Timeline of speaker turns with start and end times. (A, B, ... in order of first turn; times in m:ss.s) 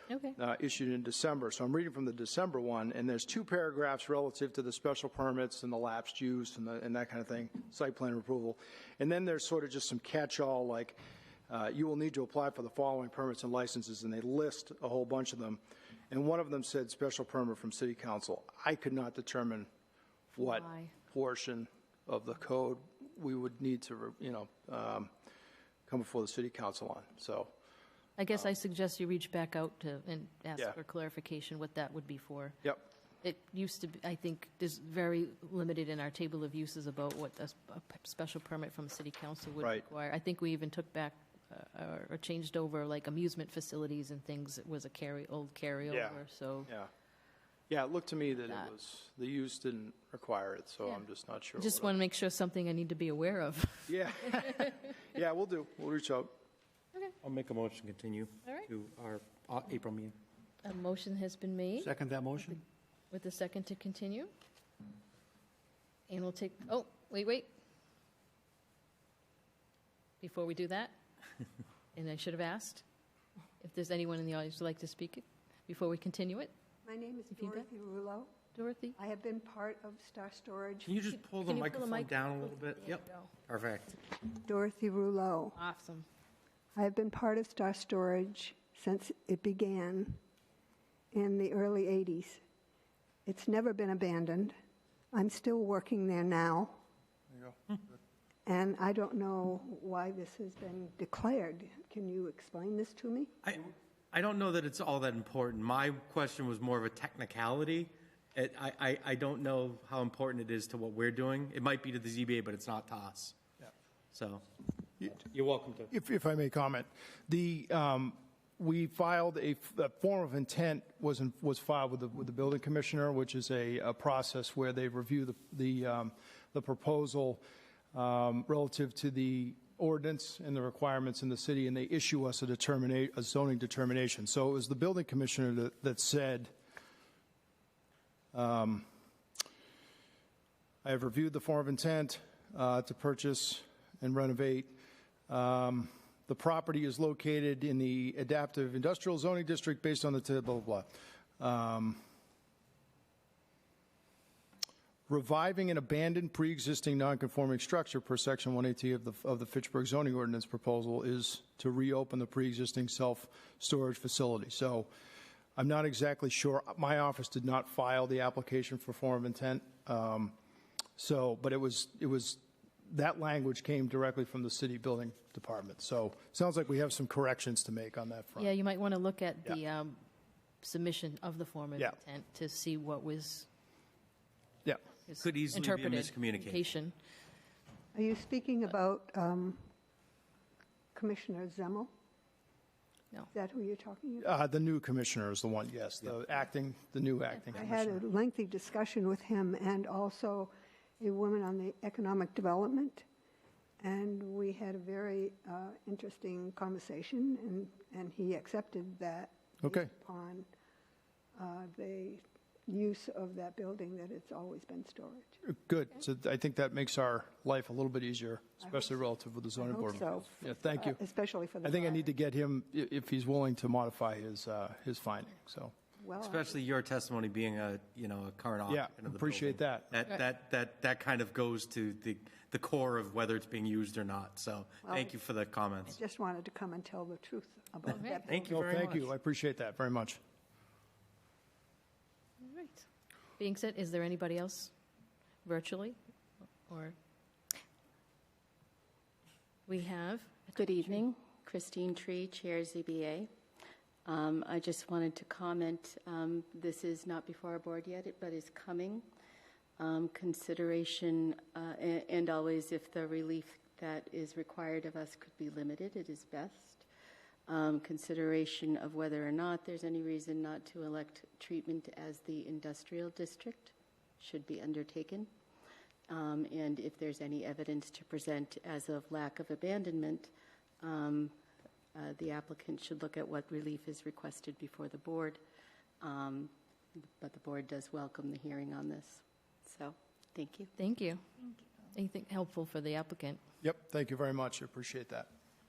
0:00.1-0:00.4 A
0:00.4-0:11.0 B
0:11.5-0:19.7 B
0:20.3-0:25.1 B
0:20.4-0:20.9 A
0:25.9-0:27.5 B
0:28.2-0:46.7 A
0:45.9-0:46.9 B
0:47.7-0:51.9 B
0:51.5-0:54.9 A
0:53.9-0:56.3 B
0:57.2-1:00.2 C
1:00.6-1:01.9 A
1:01.8-1:02.6 C
1:03.1-1:04.3 A
1:06.1-1:07.5 A
1:10.2-1:10.9 A
1:11.9-1:12.8 A
1:13.6-1:16.5 A
1:16.8-1:20.9 D
1:17.3-1:17.6 A
1:18.5-1:19.0 A
1:20.8-1:23.9 C
1:21.3-1:23.3 A
1:24.2-1:25.6 D
1:25.6-1:26.0 A
1:26.7-1:30.2 D
1:31.1-1:32.4 D
1:33.2-1:34.5 D
1:35.1-1:36.8 D
1:38.4-1:43.4 D
1:43.4-1:53.4 C
1:54.1-1:54.4 C
1:55.0-1:55.9 C
1:55.9-2:07.4 B
2:07.9-2:16.5 B
2:18.3-2:18.8 B
2:20.8-2:24.7 B
2:25.3-2:32.0 B
2:35.1-2:44.9 B
2:45.6-2:50.4 B
2:51.0-2:58.5 B
2:58.4-3:00.0 A
3:00.6-3:03.5 A
3:05.1-3:06.9 A
3:05.2-3:06.7 C
3:07.9-3:09.7 D
3:10.9-3:11.9 D
3:13.3-3:14.3 D
3:14.2-3:18.0 B
3:17.5-3:23.0 D
3:23.8-3:30.5 D
3:29.6-3:29.9 B
3:31.4-3:35.4 D
3:35.4-3:41.0 B
3:39.6-3:42.0 D
3:41.6-3:45.7 B
3:46.0-3:46.6 D
3:46.2-3:56.0 C
3:48.7-3:49.9 B
3:54.8-3:55.1 D
3:55.9-3:58.5 D
3:57.9-3:58.2 A
3:58.1-3:59.1 C
3:58.5-4:00.2 B
4:02.4-4:02.8 A
4:03.4-4:04.7 A
4:05.4-4:06.0 A
4:06.7-4:07.0 A
4:09.7-4:11.0 A
4:10.6-4:13.3 E
4:14.0-4:19.0 E
4:19.8-4:26.8 E
4:27.5-4:35.3 E
4:36.1-4:41.3 E
4:41.9-4:45.4 E
4:46.0-4:50.7 E
4:50.8-4:51.2 A
4:51.9-4:53.4 A
4:53.6-4:55.3 B